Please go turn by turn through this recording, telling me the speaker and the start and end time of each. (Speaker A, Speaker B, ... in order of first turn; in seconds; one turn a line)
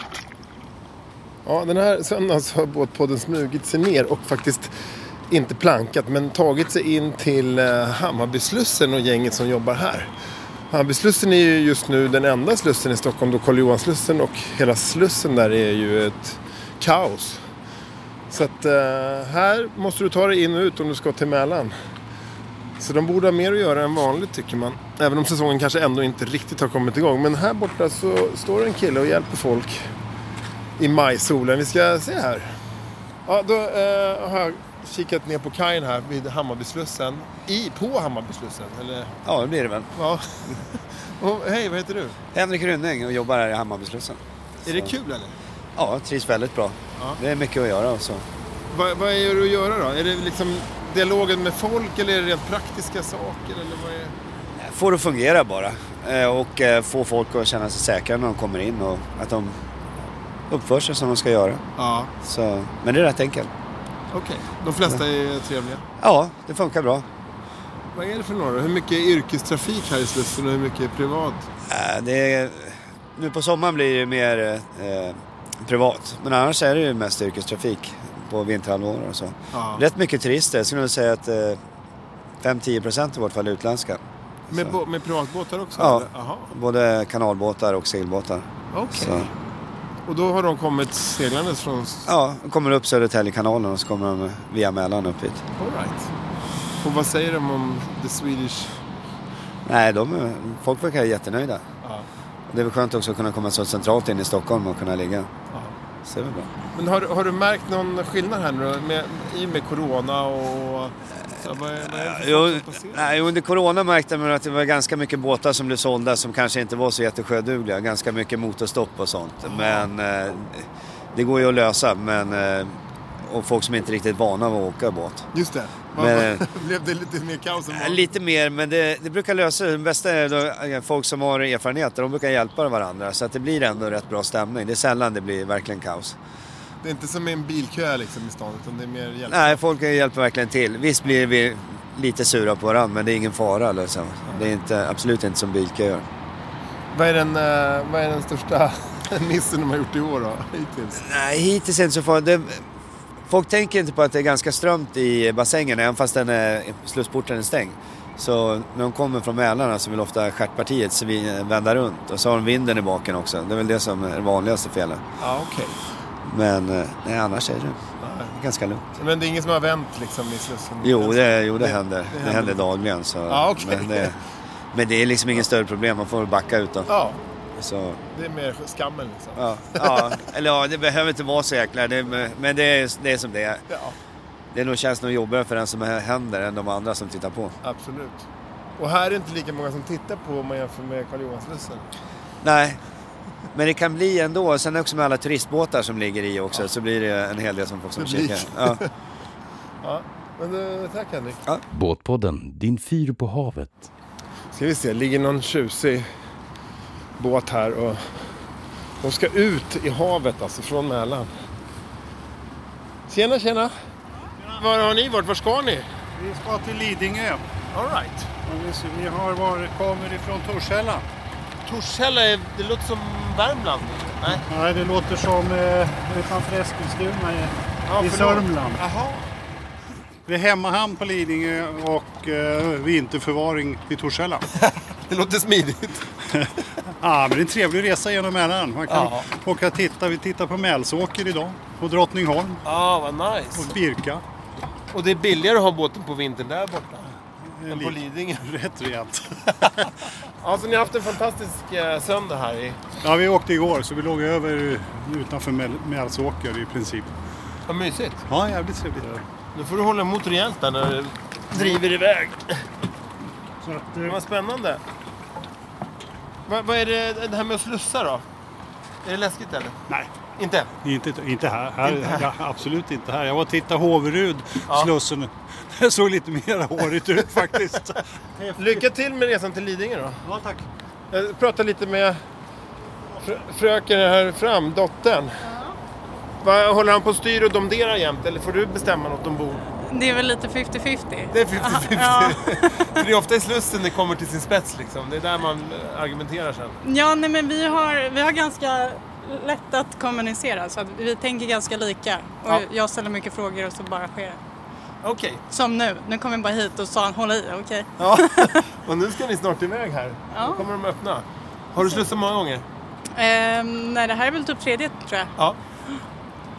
Speaker A: 1.4-4.7
Speaker A: 5.3-10.1
Speaker A: 10.7-17.4
Speaker A: 18.3-21.7
Speaker A: 22.8-29.9
Speaker A: 30.8-32.5
Speaker A: 33.2-39.1
Speaker B: 39.2-39.9
Speaker A: 39.9-42.1
Speaker B: 42.3-44.9
Speaker A: 44.6-45.3
Speaker B: 45.8-48.2
Speaker A: 48.7-54.1
Speaker B: 54.5-59.5
Speaker B: 60.5-61.6
Speaker A: 61.8-62.1
Speaker B: 62.2-63.5
Speaker A: 64.1-65.8
Speaker B: 66.0-67.0
Speaker A: 67.9-71.5
Speaker B: 71.7-81.6
Speaker A: 79.5-79.8
Speaker B: 82.4-84.8
Speaker A: 84.5-86.5
Speaker B: 85.8-89.3
Speaker A: 88.7-89.3
Speaker A: 90.1-92.1
Speaker B: 92.0-95.4
Speaker A: 95.6-96.1
Speaker A: 96.8-98.8
Speaker B: 99.7-101.6
Speaker B: 102.5-105.3
Speaker B: 106.0-106.5
Speaker A: 106.7-113.2
Speaker B: 111.9-125.3
Speaker A: 119.4-119.9
Speaker A: 125.3-128.1
Speaker B: 125.9-126.4
Speaker B: 127.7-136.2
Speaker A: 136.8-139.6
Speaker B: 139.3-146.0
Speaker A: 146.9-151.0
Speaker B: 150.9-152.7
Speaker B: 153.2-165.0
Speaker A: 165.2-165.8
Speaker B: 166.2-168.8
Speaker A: 168.0-168.3
Speaker A: 169.0-172.6
Speaker B: 170.8-174.2
Speaker A: 173.3-174.1
Speaker B: 174.7-176.9
Speaker A: 176.9-177.2
Speaker B: 177.6-178.0
Speaker A: 178.1-180.1
Speaker B: 179.3-183.6
Speaker A: 183.7-183.9
Speaker B: 184.5-187.6
Speaker A: 187.6-188.2
Speaker A: 188.8-191.9
Speaker B: 192.4-192.8
Speaker B: 193.5-198.8
Speaker A: 198.0-198.8
Speaker A: 199.8-201.4
Speaker C: 201.7-203.9
Speaker A: 204.5-206.1
Speaker A: 207.2-208.0
Speaker A: 209.0-211.3
Speaker A: 213.1-213.7
Speaker A: 214.5-215.8
Speaker D: 216.2-217.4
Speaker A: 217.7-218.3
Speaker D: 218.4-221.0
Speaker A: 221.7-224.4
Speaker D: 224.3-228.8
Speaker A: 227.9-229.3
Speaker D: 230.2-234.4
Speaker A: 234.5-236.1
Speaker D: 236.3-242.6
Speaker A: 238.9-239.2
Speaker A: 242.6-243.7
Speaker D: 243.5-244.2
Speaker A: 244.9-247.1
Speaker D: 247.5-249.9
Speaker A: 247.7-248.4
Speaker A: 250.4-252.8
Speaker D: 253.0-257.1
Speaker A: 257.7-258.2
Speaker D: 258.3-259.2
Speaker A: 259.5-262.6
Speaker D: 263.6-264.2
Speaker A: 264.0-264.8
Speaker A: 266.5-268.2
Speaker A: 269.0-269.8
Speaker A: 270.4-270.7
Speaker D: 270.8-278.8
Speaker A: 271.9-272.2
Speaker A: 278.5-280.2
Speaker D: 280.2-280.6
Speaker A: 281.1-282.2
Speaker A: 283.2-285.4
Speaker E: 285.4-285.8
Speaker A: 286.4-289.6
Speaker E: 289.9-292.8
Speaker A: 291.3-296.8
Speaker E: 296.8-304.4
Speaker A: 305.0-305.4
Speaker E: 305.5-308.6
Speaker A: 308.0-312.6
Speaker E: 310.3-310.7
Speaker E: 313.1-315.3